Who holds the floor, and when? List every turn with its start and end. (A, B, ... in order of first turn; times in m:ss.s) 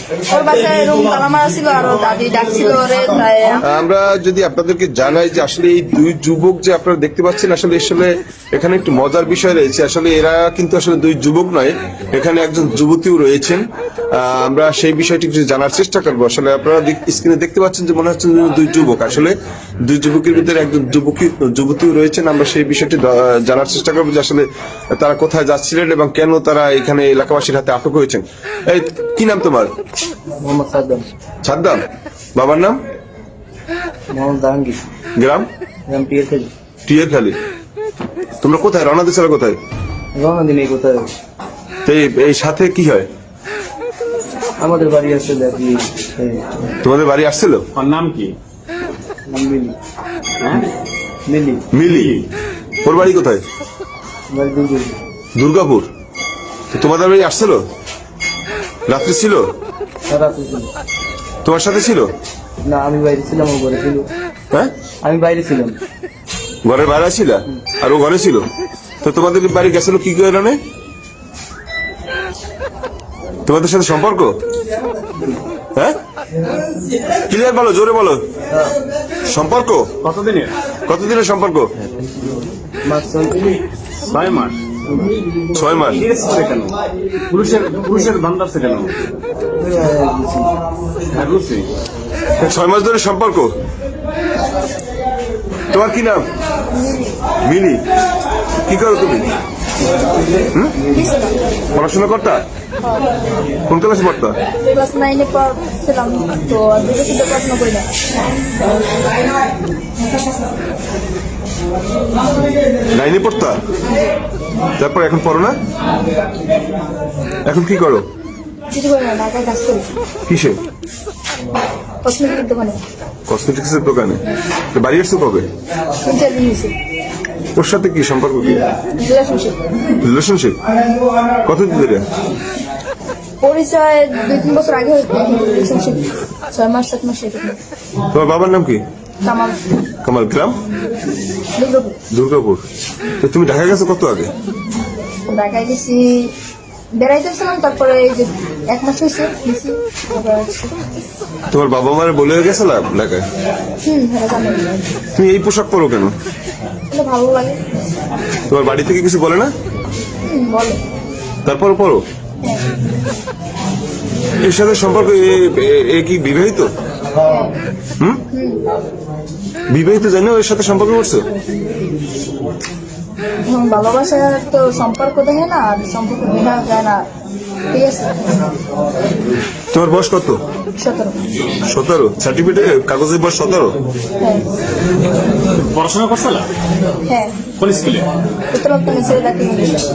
0:00.3-0:03.6 A
0:03.6-0:29.7 B
0:30.4-0:31.1 C
0:31.4-0:31.8 B
0:32.4-0:32.8 B
0:34.1-0:34.8 C
0:35.2-0:35.5 B
0:35.9-0:36.5 C
0:36.8-0:37.4 B
0:38.4-0:39.6 B
0:40.1-0:41.1 C
0:41.8-0:43.1 B
0:44.6-0:46.4 C
0:46.8-0:47.6 B
0:47.7-0:48.3 D
0:49.3-0:49.8 C
0:50.4-0:50.6 D
0:51.3-0:51.6 C
0:51.7-0:52.2 B
0:51.9-0:52.2 D
0:52.8-0:53.4 B
0:54.3-0:55.0 C
0:55.4-0:55.9 B
0:56.7-0:57.6 B
0:58.9-0:59.5 B
1:00.1-1:00.7 C
1:01.4-1:02.1 B
1:02.6-1:04.1 C
1:05.0-1:05.8 C
1:06.6-1:08.4 B
1:09.0-1:10.6 B
1:13.4-1:14.4 B
1:17.3-1:18.2 B
1:19.3-1:19.9 B
1:20.0-1:20.5 D
1:20.8-1:21.7 B
1:22.8-1:23.5 C
1:24.1-1:24.6 D
1:25.5-1:26.0 B
1:25.9-1:26.8 D
1:27.3-1:28.9 D
1:29.6-1:30.5 C
1:31.1-1:31.7 D
1:32.4-1:33.5 B
1:35.7-1:36.2 B
1:36.7-1:37.1 A
1:37.4-1:37.8 B
1:38.7-1:39.3 B
1:40.9-1:41.4 A
1:41.7-1:42.4 B
1:43.7-1:44.4 B
1:44.7-1:47.9 A
1:52.9-1:53.6 B
1:54.8-1:55.6 B
1:57.5-1:58.0 B
1:58.7-1:59.9 A
2:00.3-2:00.6 B
2:02.0-2:02.8 A
2:03.3-2:04.2 B
2:04.7-2:05.5 B
2:06.0-2:06.7 A
2:07.6-2:08.6 B
2:09.0-2:09.6 A
2:10.0-2:10.6 B
2:11.4-2:12.0 B
2:13.4-2:17.6 A
2:18.1-2:18.8 B
2:19.2-2:19.5 A
2:20.0-2:20.6 B
2:21.6-2:22.0 A
2:22.1-2:22.6 B
2:23.2-2:24.3 B
2:25.3-2:26.3 A
2:27.0-2:30.7 A
2:31.5-2:33.2 B
2:33.8-2:34.7 A
2:35.2-2:36.1 B
2:36.9-2:37.6 A
2:38.5-2:39.5 B
2:40.3-2:40.8 A
2:41.4-2:42.0 B
2:44.4-2:46.7 B
2:47.2-2:47.5 A
2:48.3-2:48.6 A
2:49.7-2:51.2 B
2:53.5-2:57.0 A
2:57.7-2:58.1 A
2:59.7-3:00.4 B
3:00.8-3:01.2 A
3:01.7-3:03.8 B
3:05.6-3:06.5 D
3:07.6-3:08.1 D
3:08.5-3:09.8 A